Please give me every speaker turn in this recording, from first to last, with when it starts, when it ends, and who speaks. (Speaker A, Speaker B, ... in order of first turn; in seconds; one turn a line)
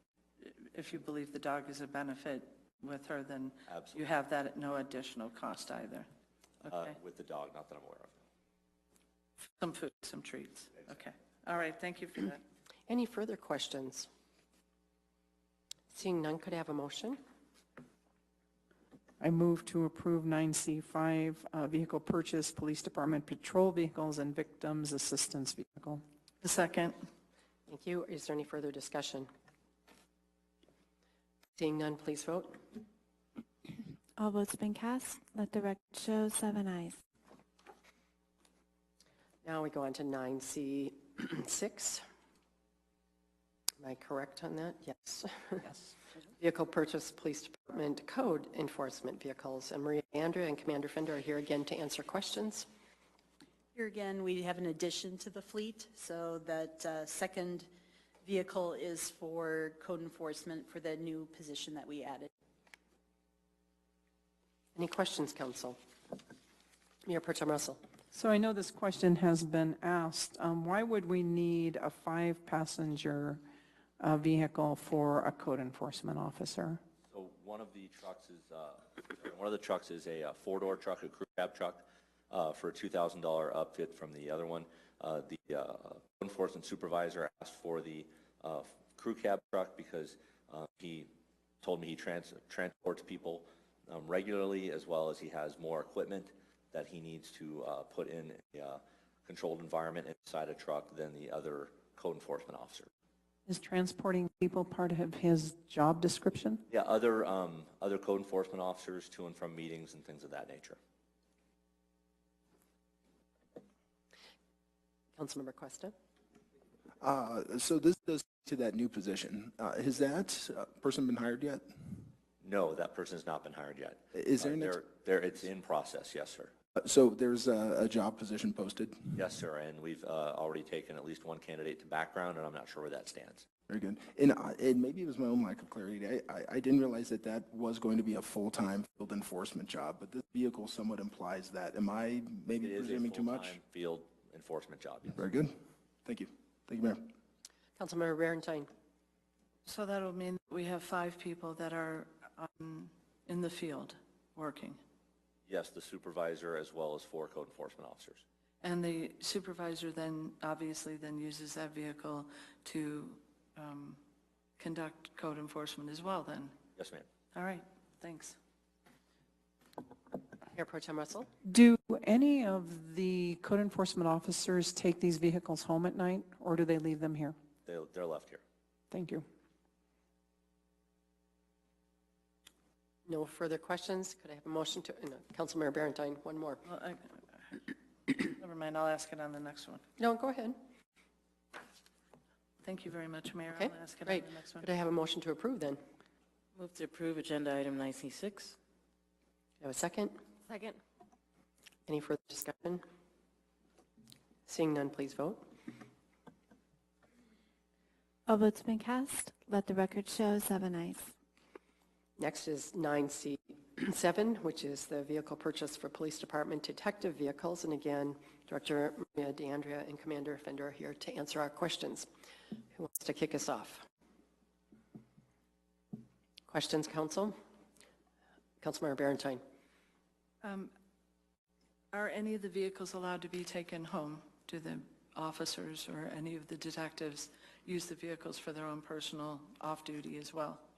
Speaker A: 0.4-6.1
Speaker B: 3.7-4.0
Speaker A: 6.6-6.9
Speaker B: 6.7-8.1
Speaker A: 9.6-12.4
Speaker C: 12.9-14.1
Speaker C: 15.9-17.2
Speaker D: 19.2-26.0
Speaker A: 26.4-27.0
Speaker C: 27.7-29.3
Speaker C: 31.6-32.6
Speaker E: 34.2-37.0
Speaker C: 39.4-42.0
Speaker C: 43.8-45.7
Speaker C: 46.4-52.7
Speaker F: 53.7-57.7
Speaker F: 58.2-62.3
Speaker C: 64.8-65.8
Speaker C: 67.0-67.8
Speaker D: 68.1-73.4
Speaker D: 74.0-76.8
Speaker B: 77.1-91.1
Speaker B: 91.6-102.9
Speaker D: 103.5-106.6
Speaker B: 106.7-110.8
Speaker C: 115.2-115.9
Speaker G: 117.0-121.7
Speaker B: 122.4-126.5
Speaker G: 124.1-124.8
Speaker G: 126.8-129.2
Speaker B: 129.1-133.4
Speaker G: 133.7-143.6
Speaker B: 142.6-145.3
Speaker G: 145.2-145.5
Speaker G: 146.0-147.0
Speaker C: 147.8-148.7
Speaker A: 149.7-154.8
Speaker B: 155.5-158.2
Speaker A: 158.6-164.0
Speaker A: 164.6-166.5
Speaker B: 166.8-167.1
Speaker A: 167.3-168.4
Speaker C: 170.5-171.3
Speaker D: 171.4-177.3
Speaker B: 177.7-178.4
Speaker D: 178.9-179.2
Speaker C: 183.1-186.6
Speaker A: 186.7-187.6
Speaker A: 188.1-189.8
Speaker C: 190.0-190.6
Speaker A: 192.6-194.7
Speaker C: 193.5-195.8
Speaker H: 196.5-198.6
Speaker C: 199.6-200.2
Speaker H: 200.5-200.8
Speaker C: 201.9-202.8
Speaker C: 204.4-205.5
Speaker E: 208.3-211.1
Speaker C: 212.2-222.1
Speaker C: 222.7-223.8
Speaker C: 226.5-227.3
Speaker C: 228.6-229.4
Speaker A: 230.4-230.7
Speaker A: 231.9-240.6